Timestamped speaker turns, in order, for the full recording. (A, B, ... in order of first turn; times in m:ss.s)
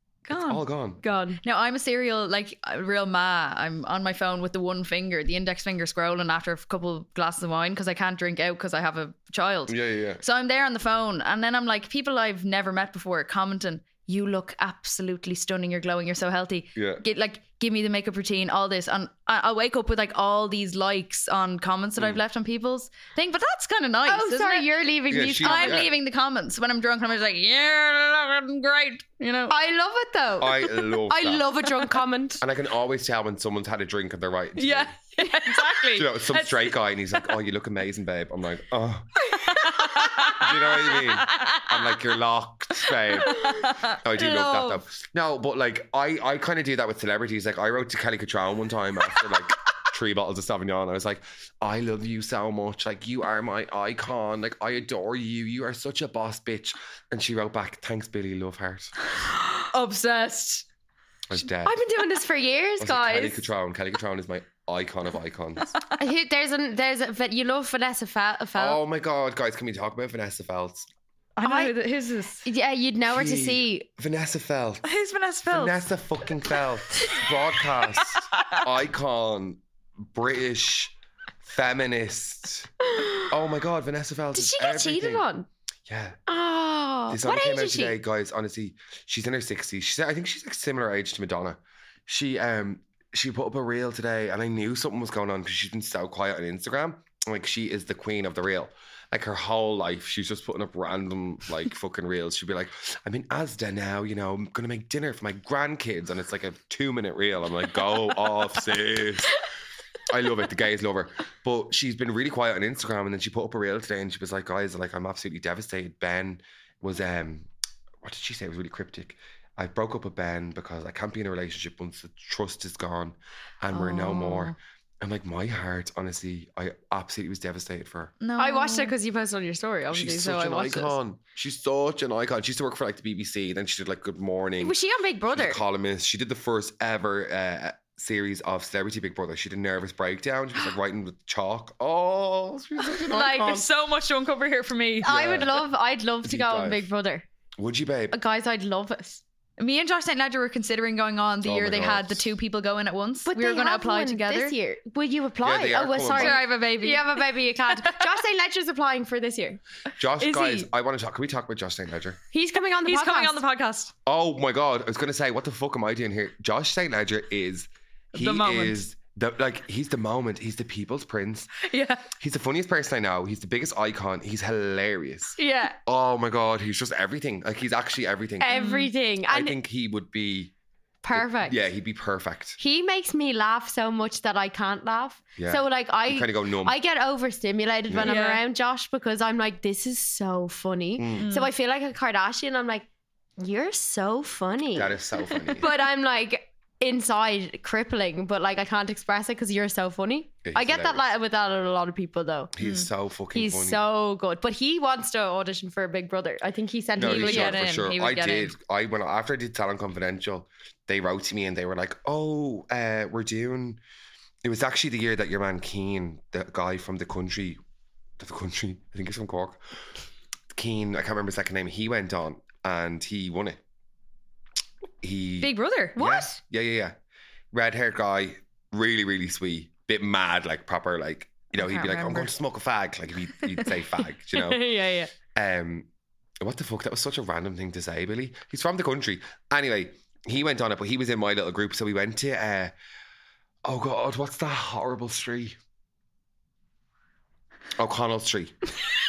0:00.2-0:00.6 A
0:00.3-0:01.0 B
0:01.0-0:01.4 C
0:01.4-0:24.7 A
0:09.7-0:10.2 B
0:16.8-0:17.0 B
0:24.0-0:25.9 C
0:25.1-0:25.9 B
0:25.4-0:29.5 A
0:29.5-0:32.4 C
0:30.4-0:31.4 B
0:32.4-0:34.9 B
0:34.6-0:36.8 A
0:35.2-0:35.7 C
0:35.9-0:39.1 B
0:39.3-0:40.4 C
0:39.5-0:41.7 A
0:40.3-0:58.9 B
0:43.2-0:44.8 A
0:59.2-1:00.6 A
1:01.3-1:01.8 B
1:01.6-1:03.5 C
1:02.8-1:05.7 B
1:06.0-1:08.8 C
1:08.6-1:10.9 B
1:11.4-1:12.4 A
1:11.4-1:11.7 C
1:12.4-1:13.8 C
1:13.1-1:14.8 B
1:14.8-1:15.8 A
1:15.4-1:22.7 B
1:18.3-1:18.6 A
1:22.9-1:23.3 C
1:23.2-1:25.2 B
1:24.3-1:25.5 C
1:25.9-1:26.2 B
1:26.3-1:28.0 C
1:27.1-1:49.4 B
1:50.1-1:57.5 B
1:58.0-2:08.1 B
2:03.7-2:04.6 A
2:08.2-2:08.9 A
2:08.4-2:11.0 C
2:09.9-2:14.7 B
2:14.6-2:15.6 C
2:15.3-2:23.7 B
2:23.0-2:25.1 A
2:25.0-2:27.2 C
2:25.0-2:25.7 B
2:26.2-2:26.8 B
2:27.6-2:28.2 B
2:28.1-2:29.2 C
2:29.6-2:34.6 A
2:31.4-2:32.2 B
2:33.2-2:39.6 C
2:35.4-2:36.4 B
2:36.1-2:37.2 A
2:37.8-2:38.1 A
2:40.0-2:42.2 B
2:40.2-2:40.7 A
2:42.3-2:43.4 C
2:42.8-2:43.9 A
2:44.0-2:51.5 B
2:48.1-2:48.9 A
2:51.6-2:52.0 A
2:52.2-2:58.5 B
2:55.4-2:55.7 C
2:58.4-2:59.6 C
2:58.5-2:58.9 A
2:59.3-3:00.5 B
3:01.0-3:01.6 C
3:01.1-3:02.6 B
3:02.6-3:12.9 C
3:05.4-3:06.8 B
3:07.9-3:08.2 B
3:08.0-3:08.4 A
3:11.0-3:11.3 B
3:11.2-3:11.5 A
3:13.4-3:15.0 C
3:14.7-3:15.7 B
3:15.5-3:22.5 C
3:20.4-3:21.0 B
3:22.6-3:23.8 B
3:22.6-3:22.9 A
3:23.3-3:27.6 C
3:27.0-3:33.8 B
3:27.0-3:28.5 A
3:34.4-3:37.6 B
3:38.2-3:39.6 B
3:40.5-3:43.6 B
3:45.0-3:47.0 B
3:45.4-3:46.2 A
3:46.0-3:46.4 C
3:47.5-3:54.7 B
3:51.5-3:52.3 A
3:54.3-3:55.1 C
3:55.3-3:55.9 B
3:56.4-4:02.7 B
4:03.6-4:05.6 B
4:07.8-4:08.5 B